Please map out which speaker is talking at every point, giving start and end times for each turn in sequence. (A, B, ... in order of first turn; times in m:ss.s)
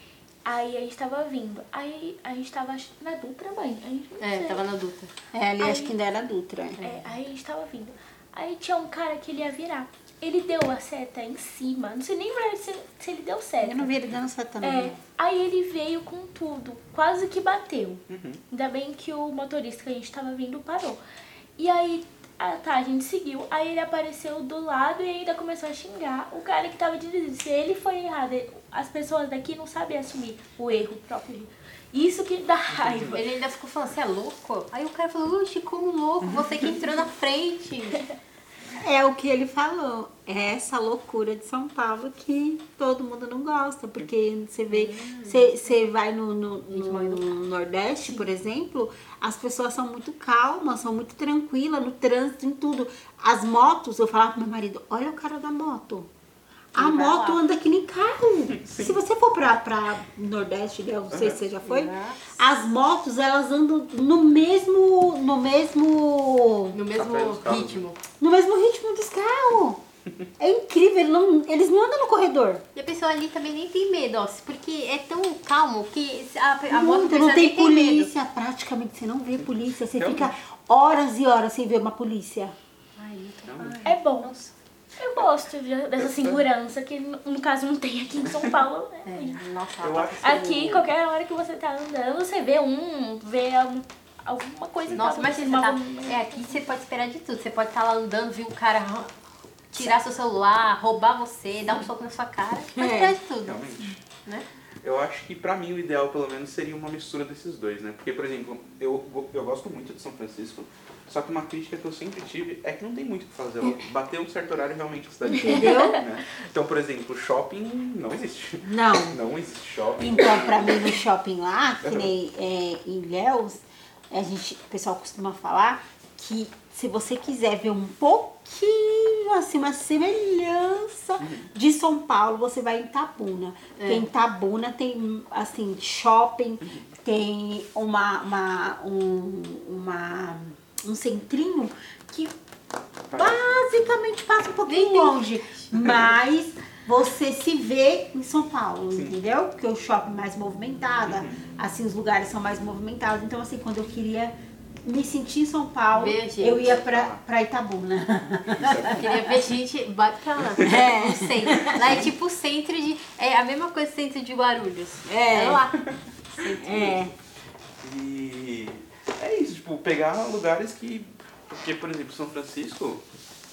0:00.4-0:04.6 A
0:04.2-0:05.1 B
0:05.3-0:06.8 C
0:05.6-0:05.9 A
0:06.8-0:13.9 A
0:13.6-0:15.0 C
0:14.6-0:21.0 A
0:18.1-0:18.4 D
0:21.6-0:33.2 A
0:32.7-0:33.2 D
0:33.1-0:38.0 B
0:38.8-0:56.1 C
0:44.8-0:45.4 B
0:46.7-0:47.3 B
0:56.7-1:06.8 C
0:56.8-0:57.4 B
1:01.1-1:01.4 D
1:01.6-1:02.4 B
1:06.7-1:08.0 B
1:06.9-1:07.8 D
1:08.2-1:09.8 C
1:10.4-1:12.6 C
1:12.8-1:18.1 B
1:16.7-1:22.6 C
1:20.0-1:20.3 D
1:23.0-1:24.5 B
1:23.5-1:23.8 D
1:23.8-1:24.3 A
1:25.0-1:29.4 A
1:26.0-1:26.4 D
1:29.1-1:30.9 B
1:29.8-1:30.7 D
1:30.2-1:36.6 A
1:34.9-1:39.1 B
1:39.7-1:43.6 B
1:42.8-1:43.2 C
1:43.4-1:44.0 D
1:44.1-1:44.5 B
1:44.8-2:00.8 D
1:55.3-1:56.0 C
1:58.6-1:59.2 C
2:00.0-2:22.4 C
2:01.8-2:02.1 D
2:11.2-2:11.5 D
2:13.8-2:14.1 B
2:23.1-2:39.2 C
2:23.1-2:23.5 D
2:24.7-2:25.7 B
2:31.1-2:31.4 D
2:35.9-2:36.8 B
2:36.8-2:37.2 D
2:38.5-2:39.1 D
2:38.8-2:47.1 B
2:40.6-2:41.9 C
2:41.7-2:42.0 D
2:45.1-2:45.7 C
2:46.4-2:47.1 C
2:47.8-2:53.0 D